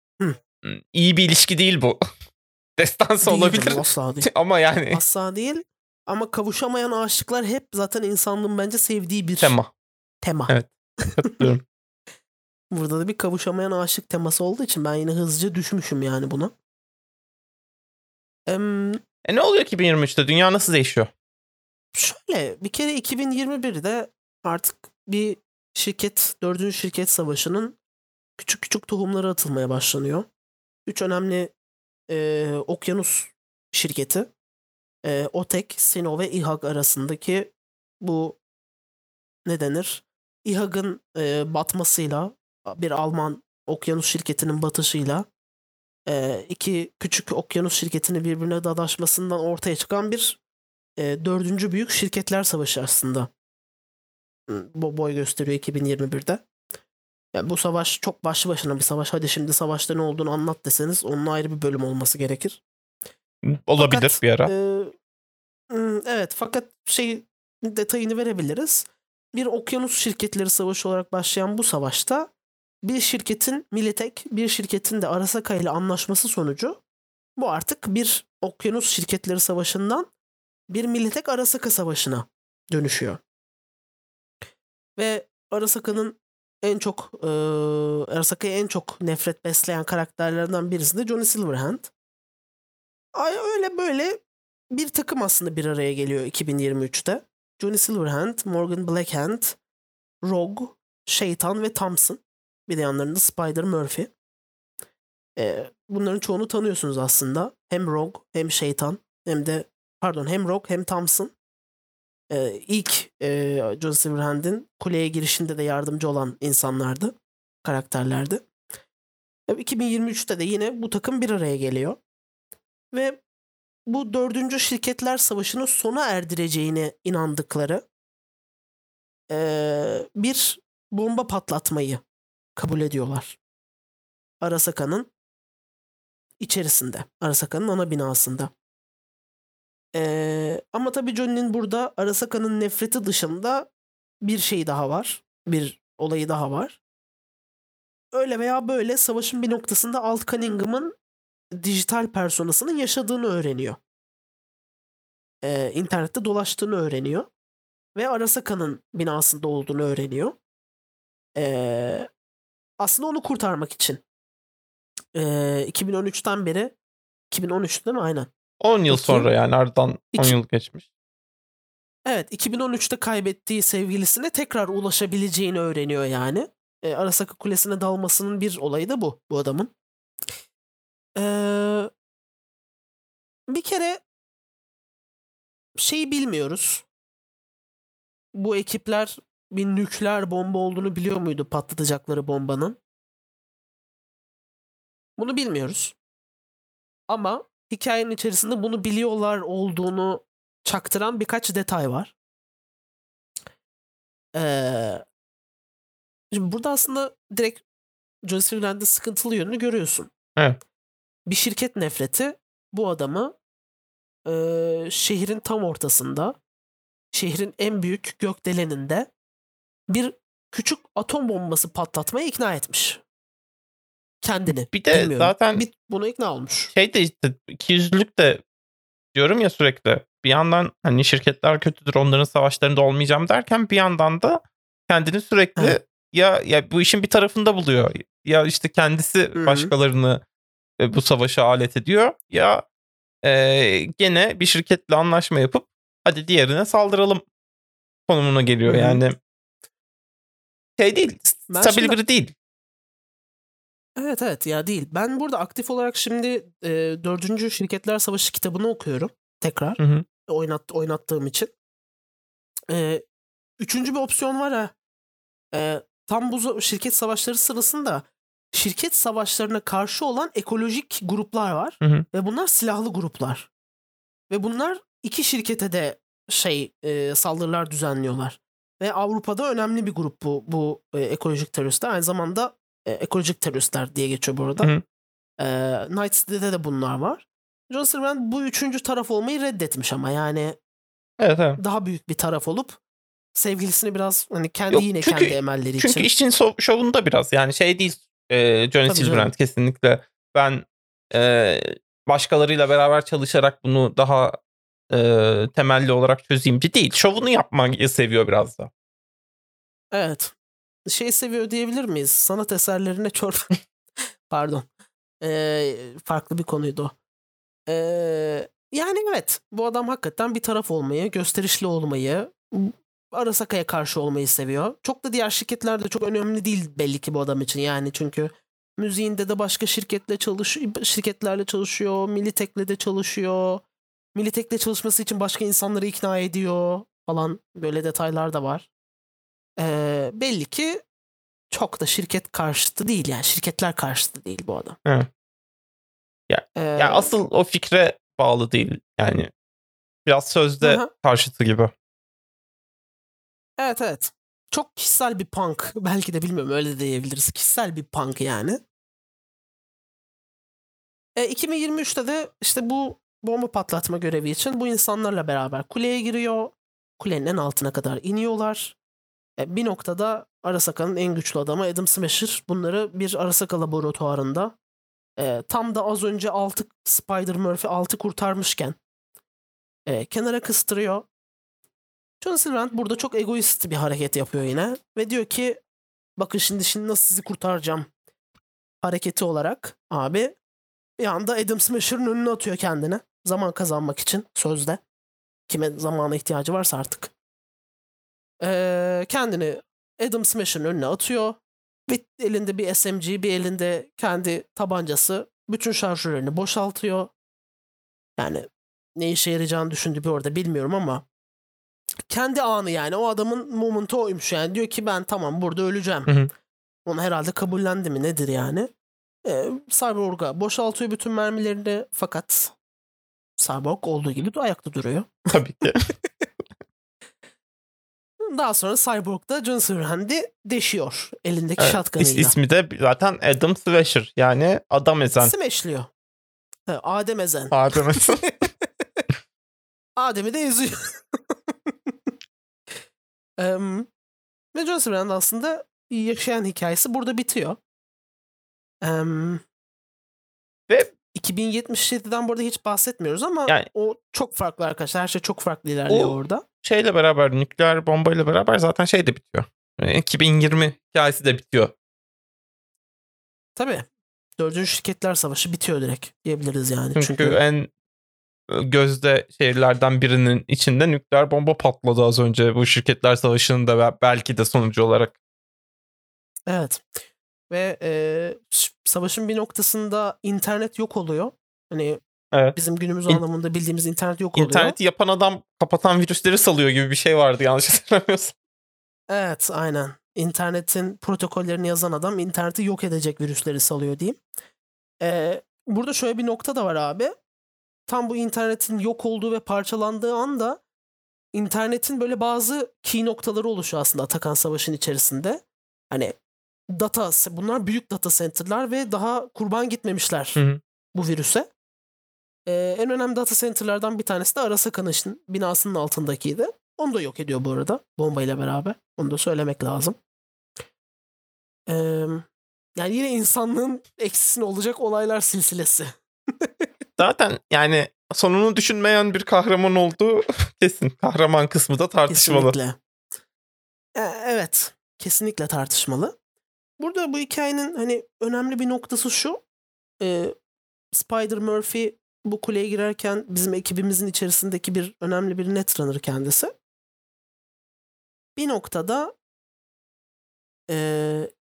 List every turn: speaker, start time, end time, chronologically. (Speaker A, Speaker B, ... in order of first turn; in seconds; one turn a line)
Speaker A: 0.6-2.0
Speaker A: 2.8-5.0
Speaker B: 3.2-4.3
Speaker B: 4.9-9.5
Speaker A: 9.4-9.7
Speaker B: 10.2-10.5
Speaker A: 10.5-11.6
Speaker B: 12.7-16.5
Speaker B: 18.5-19.0
Speaker A: 19.2-21.1
Speaker B: 21.9-27.8
Speaker B: 28.4-30.2
Speaker B: 30.9-31.5
Speaker B: 32.1-34.3
Speaker B: 35.0-38.4
Speaker B: 39.5-45.3
Speaker B: 46.1-50.4
Speaker B: 51.0-53.3
Speaker B: 54.5-56.4
Speaker B: 57.3-62.6
Speaker A: 63.4-64.5
Speaker B: 63.8-64.9
Speaker B: 65.7-72.3
Speaker B: 72.8-76.8
Speaker B: 77.4-80.1
Speaker B: 80.7-83.2
Speaker B: 85.0-91.9
Speaker B: 93.1-99.6
Speaker B: 100.2-104.1
Speaker B: 105.4-111.3
Speaker B: 112.3-117.1
Speaker B: 117.6-118.4
Speaker B: 119.5-122.0
Speaker B: 122.9-123.2
Speaker B: 123.9-127.8
Speaker B: 129.3-132.0
Speaker B: 132.6-133.4
Speaker B: 134.4-135.1
Speaker B: 136.4-138.5
Speaker B: 139.9-143.7
Speaker B: 144.2-146.8
Speaker B: 148.1-150.9
Speaker B: 151.6-153.8
Speaker B: 155.4-157.3
Speaker B: 157.9-160.3
Speaker B: 161.3-162.1
Speaker B: 162.8-164.0
Speaker B: 165.1-166.7
Speaker B: 167.3-168.3
Speaker A: 168.6-170.8
Speaker B: 168.9-169.3
Speaker B: 172.1-179.7
Speaker B: 181.2-181.9
Speaker B: 183.5-184.0
Speaker B: 185.8-186.8
Speaker B: 188.3-192.8
Speaker B: 195.2-195.9
Speaker B: 197.1-202.1
Speaker B: 204.3-205.0
Speaker B: 206.3-207.6
Speaker B: 208.2-210.1
Speaker B: 211.3-213.3
Speaker B: 214.2-216.3
Speaker B: 217.1-219.1
Speaker B: 219.9-223.0
Speaker B: 224.2-226.7
Speaker A: 224.7-225.6
Speaker A: 226.7-228.4
Speaker A: 229.1-240.2
Speaker B: 239.3-239.7
Speaker A: 240.8-242.6
Speaker A: 243.2-247.2
Speaker A: 248.1-249.2
Speaker B: 248.7-249.0
Speaker A: 250.8-252.3
Speaker B: 251.5-252.0
Speaker B: 254.0-261.5
Speaker A: 259.8-260.1
Speaker B: 262.7-263.0
Speaker B: 263.6-264.7
Speaker B: 265.5-273.5
Speaker B: 274.3-284.7
Speaker B: 285.4-290.6
Speaker A: 291.2-291.6
Speaker B: 291.6-292.8
Speaker B: 293.4-296.1
Speaker A: 294.7-304.4
Speaker B: 298.9-299.3
Speaker A: 304.9-308.7
Speaker B: 309.9-310.3
Speaker B: 310.9-314.7
Speaker B: 315.2-316.9
Speaker B: 317.7-333.6
Speaker B: 334.1-338.7
Speaker B: 339.6-340.8
Speaker B: 341.5-344.8
Speaker A: 346.3-349.3
Speaker B: 346.6-347.1
Speaker A: 350.0-351.7
Speaker B: 350.6-350.9
Speaker B: 353.6-358.6
Speaker B: 361.1-368.8
Speaker B: 369.4-374.6
Speaker B: 375.2-378.8
Speaker B: 379.9-381.1
Speaker B: 382.2-385.6
Speaker B: 386.2-387.9
Speaker B: 388.8-390.3
Speaker B: 391.0-394.8
Speaker B: 395.5-397.1
Speaker B: 398.4-407.1
Speaker B: 408.2-411.0
Speaker B: 412.1-416.1
Speaker B: 416.9-418.7
Speaker B: 419.2-422.5
Speaker B: 423.4-425.4
Speaker A: 425.3-425.8
Speaker B: 428.2-432.3
Speaker A: 431.6-435.3
Speaker B: 435.2-435.9
Speaker B: 436.7-439.0
Speaker A: 437.5-438.2
Speaker B: 440.0-441.9
Speaker B: 443.4-443.9
Speaker B: 444.5-447.6
Speaker B: 448.8-449.4
Speaker A: 450.7-450.9
Speaker B: 451.1-456.4
Speaker A: 455.9-461.7
Speaker B: 463.6-463.9
Speaker B: 464.4-467.4
Speaker A: 467.0-467.7
Speaker A: 468.5-475.1
Speaker B: 476.5-476.9
Speaker B: 477.5-482.0
Speaker B: 482.5-484.8
Speaker A: 484.3-488.3
Speaker B: 489.1-494.2
Speaker B: 495.0-497.1
Speaker B: 497.9-500.6
Speaker B: 501.3-506.1
Speaker B: 506.7-510.4
Speaker B: 510.9-511.5
Speaker B: 512.5-520.0
Speaker B: 521.7-526.6
Speaker A: 527.0-532.5
Speaker B: 532.1-532.8
Speaker B: 533.9-536.1
Speaker B: 536.8-539.4
Speaker B: 540.0-540.3
Speaker B: 540.9-546.5
Speaker B: 548.4-549.1
Speaker B: 550.7-551.3